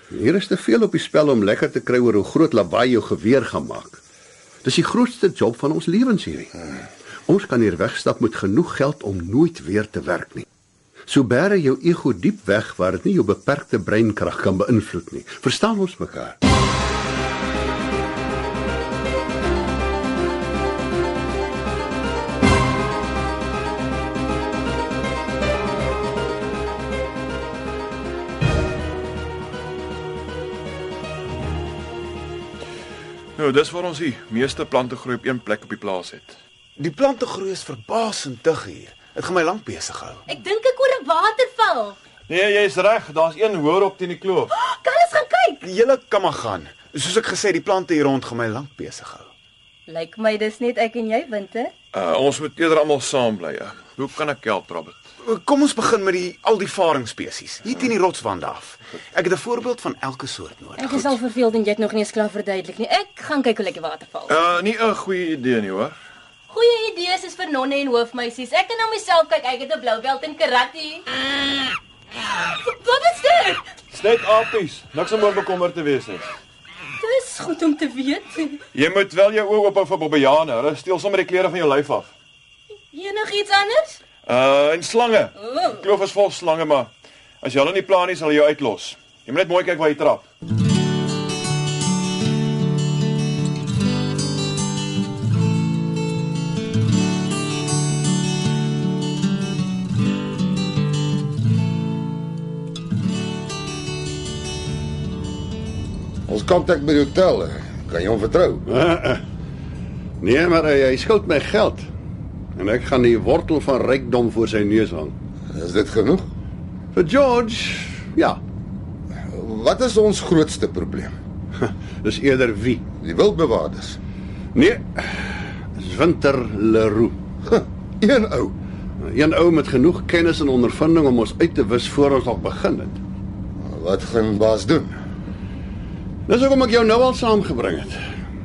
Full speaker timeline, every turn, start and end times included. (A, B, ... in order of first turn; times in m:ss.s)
0:00.1-0:04.0 A
0:04.6-0:06.6 A
0:07.3-0:10.5 A
0:11.1-0:16.4 A
0:33.4-0:36.4 B
0:36.8-0:40.2 C
0:40.3-0:42.0 D
0:42.3-0:44.5 B
0:44.5-0:45.6 D
0:45.6-0:49.3 C
0:49.9-0:51.7 D
0:51.9-0:55.0 B
0:55.2-1:01.2 C
1:00.8-1:04.3 D
1:04.3-1:06.0 B
1:06.5-1:11.1 D
1:12.4-1:13.6 D
1:13.9-1:16.3 B
1:17.0-1:18.6 D
1:18.7-1:22.1 B
1:22.9-1:24.0 D
1:24.3-1:26.9 B
1:27.4-1:30.3 B
1:46.3-1:48.6 E
1:48.7-1:49.2 A
1:50.2-1:51.9 A
1:52.6-1:55.1 A
1:55.5-1:56.3 E
1:56.9-1:58.4 A
1:59.3-2:01.2 E
2:01.6-2:02.9 A
2:03.0-2:04.0 E
2:04.5-2:07.2 A
2:07.5-2:08.6 E
2:09.0-2:13.0 A
2:13.6-2:15.0 E
2:16.3-2:18.0 A